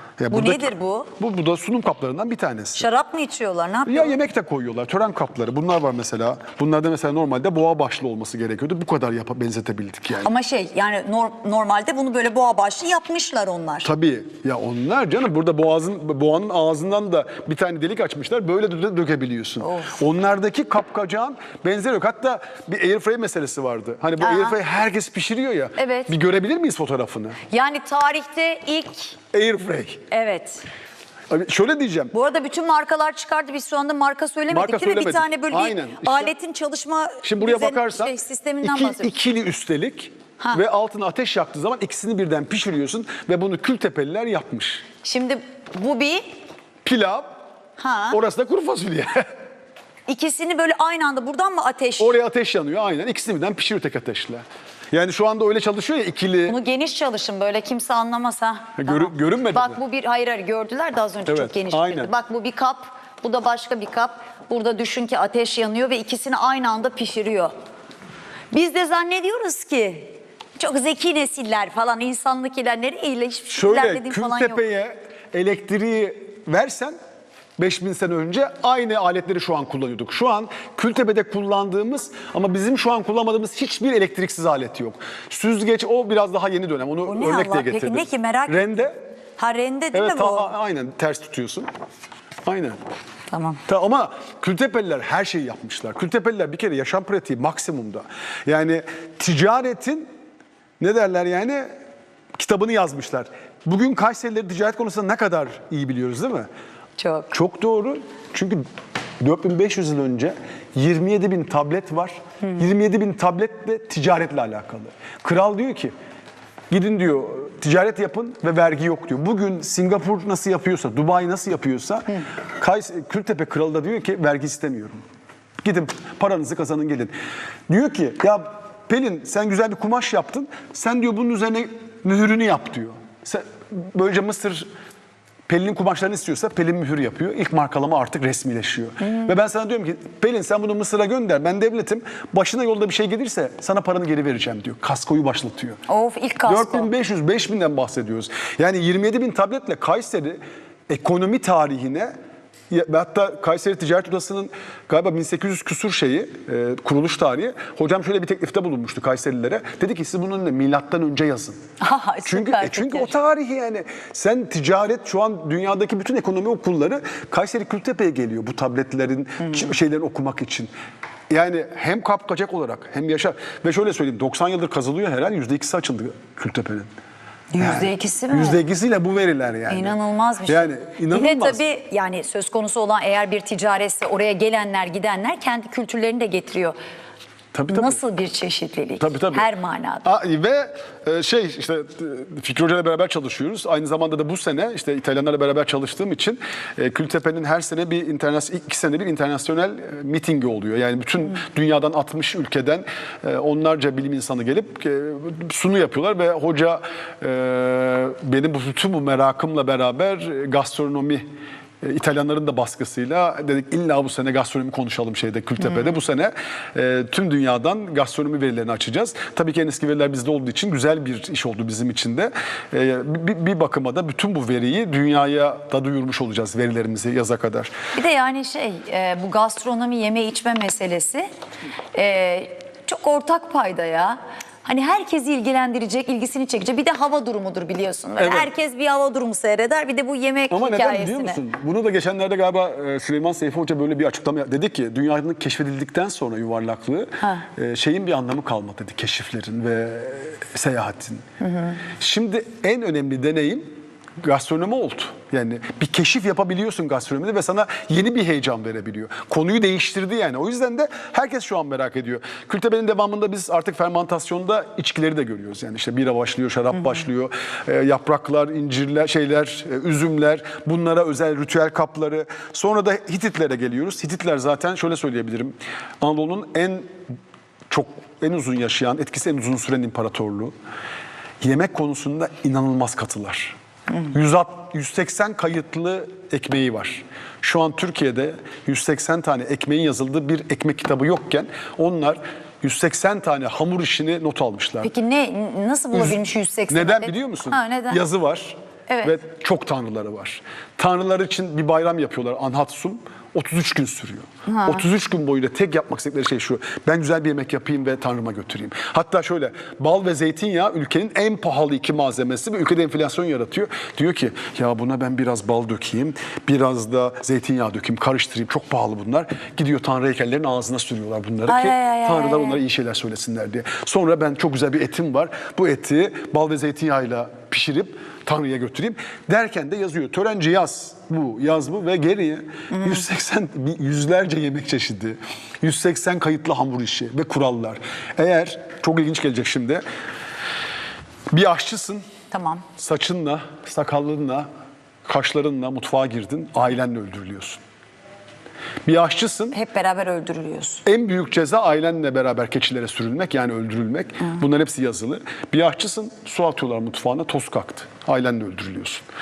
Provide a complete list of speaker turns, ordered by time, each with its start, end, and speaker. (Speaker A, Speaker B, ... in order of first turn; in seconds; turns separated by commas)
Speaker A: 0.2-2.9, Speaker B: 0.3-1.1, Speaker B: 2.8-4.2, Speaker A: 3.9-10.3, Speaker B: 10.2-13.9, Speaker A: 13.8-27.4, Speaker B: 19.6-20.0, Speaker B: 24.2-24.6, Speaker B: 25.8-26.1, Speaker B: 27.5-29.2, Speaker A: 29.3-30.0, Speaker B: 30.1-30.7, Speaker A: 31.3-32.1, Speaker B: 32.1-39.1, Speaker A: 34.5-36.3, Speaker A: 37.2-44.9, Speaker B: 45.0-46.4, Speaker A: 46.8-47.3, Speaker B: 47.8-48.2, Speaker A: 48.1-49.3, Speaker B: 50.1-52.2, Speaker A: 52.0-56.6, Speaker B: 56.5-67.5, Speaker A: 58.8-59.8, Speaker A: 61.3-62.1, Speaker B: 68.5-74.6, Speaker A: 73.5-77.0, Speaker A: 77.6-89.0, Speaker B: 87.0-90.5, Speaker A: 89.9-91.7, Speaker A: 92.5-92.8, Speaker B: 93.3-93.6, Speaker A: 93.7-100.1, Speaker A: 100.8-101.7, Speaker A: 102.4-106.5, Speaker B: 107.0-107.3, Speaker A: 107.3-108.6, Speaker A: 109.2-115.9, Speaker A: 116.7-125.0, Speaker A: 125.6-127.1, Speaker A: 127.7-134.7, Speaker A: 135.5-145.8, Speaker B: 139.0-139.3, Speaker B: 145.9-146.9, Speaker A: 146.5-152.1, Speaker A: 152.7-161.6, Speaker B: 161.8-163.1, Speaker A: 162.3-170.7, Speaker A: 171.3-176.9, Speaker B: 177.5-178.6, Speaker A: 177.6-181.6, Speaker B: 179.7-186.8, Speaker A: 187.5-188.0, Speaker B: 187.7-190.1, Speaker A: 189.0-189.5, Speaker A: 190.0-211.2, Speaker A: 211.8-227.8, Speaker B: 227.9-231.3, Speaker B: 231.9-241.4, Speaker A: 238.2-238.5, Speaker A: 240.5-251.3, Speaker B: 251.4-251.8, Speaker A: 251.9-253.7, Speaker A: 254.2-276.9, Speaker A: 277.7-280.5, Speaker A: 281.4-294.9, Speaker B: 294.8-298.0, Speaker A: 295.9-339.8, Speaker B: 298.9-299.2, Speaker B: 304.5-304.8, Speaker B: 321.5-322.6, Speaker B: 332.7-333.0, Speaker A: 341.3-342.1, Speaker B: 342.3-342.7, Speaker A: 342.8-344.5, Speaker A: 345.1-347.6, Speaker A: 348.9-349.6, Speaker B: 349.5-350.8, Speaker A: 350.9-359.1